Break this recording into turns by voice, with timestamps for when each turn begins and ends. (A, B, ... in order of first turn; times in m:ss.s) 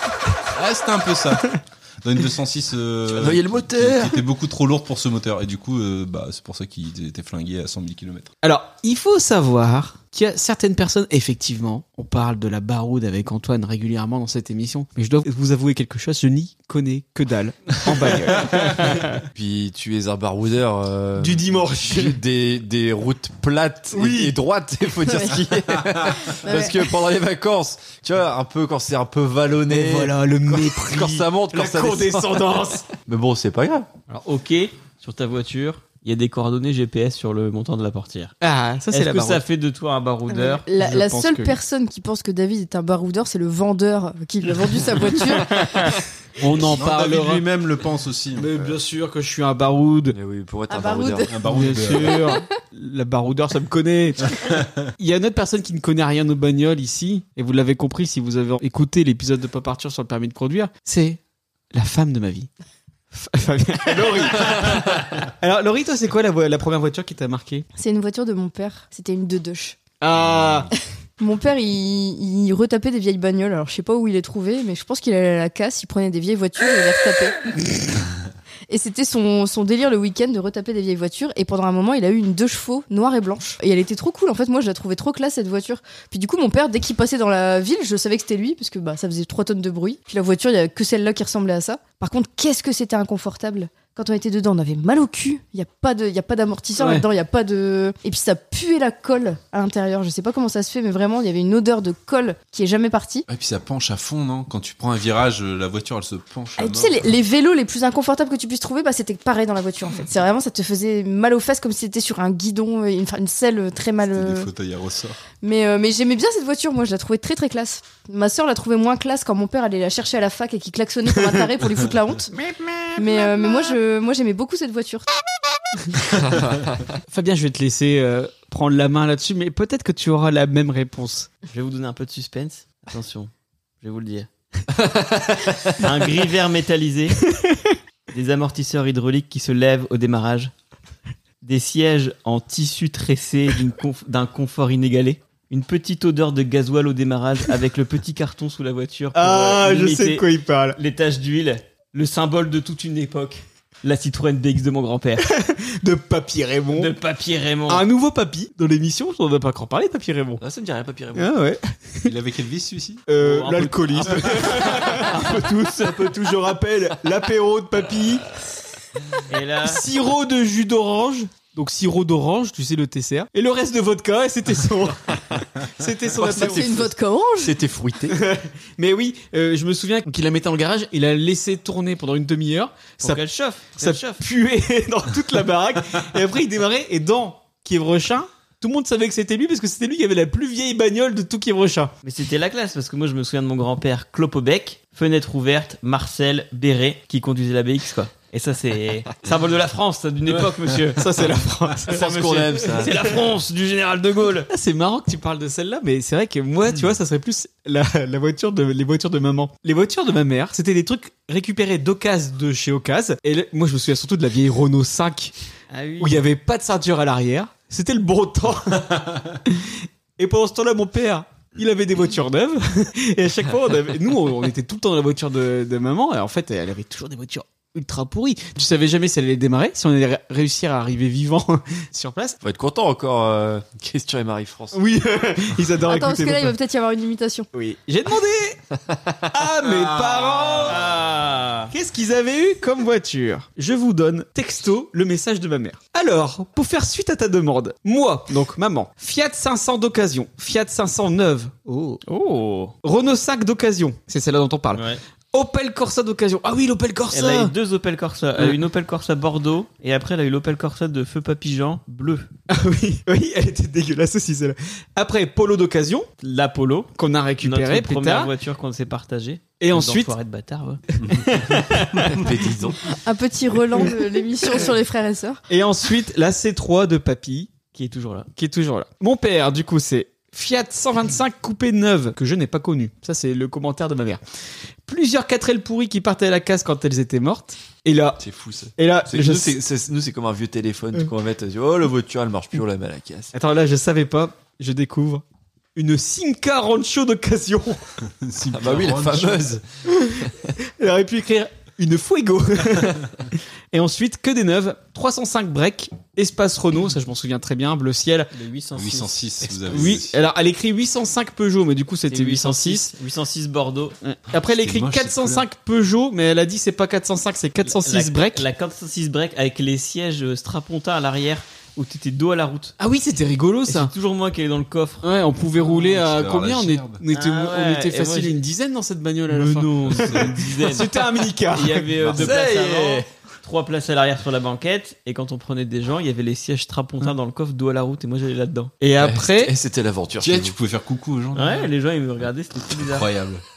0:00.5-0:08.3 A
0:03.1-0:04.2 B
0:08.4-0:19.2 C
0:19.3-0:33.9 B
0:21.2-0:22.2 C
0:23.9-0:24.4 C
0:26.4-0:27.1 D
0:29.7-0:32.8 C
0:34.1-0:38.3 E
0:38.4-0:39.4 C
0:38.9-0:40.6 E
0:40.3-0:46.0 D
0:40.8-0:41.6 C
0:46.4-0:47.4 C
0:46.5-0:48.5 A
0:48.4-0:50.2 C
0:50.1-0:51.3 B
0:50.7-0:52.4 D
0:51.3-0:52.2 A
0:51.4-1:01.2 C
0:54.3-0:54.9 A
1:01.7-1:02.5 C
1:03.1-1:07.6 C
1:07.8-1:09.8 D
1:10.0-1:10.7 C
1:11.2-1:17.4 D
1:18.7-1:43.3 D
1:36.8-1:37.0 C
1:43.3-1:47.1 A
1:46.6-1:54.5 D
1:54.0-1:55.2 A
1:55.4-2:02.3 D
2:03.0-2:05.1 D
2:06.1-2:06.8 B
2:07.1-2:11.3 C
2:11.5-2:13.3 E
2:13.8-2:14.3 E
2:14.7-2:15.8 B
2:15.8-2:17.3 E
2:18.1-2:20.5 E
2:21.4-2:35.3 E
2:29.1-2:30.8 C
2:35.2-2:36.9 C
2:36.7-2:37.9 E
2:37.7-2:40.4 C
2:40.4-2:41.3 B
2:41.1-2:42.1 C
2:42.0-2:43.0 A
2:43.1-2:48.2 C
2:43.2-2:46.1 E
2:49.3-2:49.8 E
2:49.6-2:56.7 C
2:56.2-2:57.6 D
2:56.2-2:58.2 B
2:58.1-3:03.2 C
3:03.0-3:04.2 E
3:03.8-3:11.9 C
3:12.0-3:21.0 E
3:21.0-3:22.0 C
3:21.9-3:23.0 B
3:21.9-3:24.5 E
3:24.5-3:35.3 C
3:35.7-3:36.2 E
3:36.0-3:52.4 C
3:38.9-3:39.4 A
3:52.4-3:54.8 B
3:54.7-3:56.5 C
3:55.8-3:57.5 D
3:57.5-3:58.6 C
3:59.2-4:00.8 C
3:59.6-4:01.7 E
4:01.7-4:12.0 C
4:12.1-4:12.7 E
4:12.8-4:17.5 C
4:14.7-4:15.0 E
4:17.1-4:22.3 E
4:22.5-4:26.1 C
4:26.2-4:30.8 E
4:26.9-4:28.3 C
4:29.6-4:30.1 C
4:31.0-4:31.3 A
4:31.1-4:31.6 C
4:31.3-4:32.0 E
4:32.0-4:32.9 B
4:33.0-4:35.4 D
4:35.5-4:37.5 C
4:37.7-4:38.3 E
4:38.4-4:44.2 C
4:44.9-4:48.2 C
4:48.2-4:53.3 B
4:48.8-4:49.6 C
4:53.3-4:55.2 C
4:55.8-4:57.8 C
4:58.0-4:59.6 A
4:58.5-4:59.6 B
4:59.9-5:00.3 C
5:00.8-5:03.1 C
5:03.7-5:08.3 C
5:08.3-5:09.2 E
5:08.7-5:10.2 A
5:09.7-5:12.9 C
5:12.1-5:14.0 E
5:14.0-5:18.4 C
5:14.4-5:15.5 A
5:17.6-5:22.7 E
5:22.8-5:23.9 C
5:23.7-5:25.0 E
5:25.0-5:32.3 C
5:25.6-5:27.0 A
5:27.1-5:28.4 E
5:29.3-5:38.8 E
5:29.9-5:30.3 A
5:32.1-5:33.1 B
5:38.8-5:39.5 C
5:39.0-5:40.5 B
5:40.2-5:41.7 A
5:41.4-5:43.1 E
5:42.8-5:43.4 A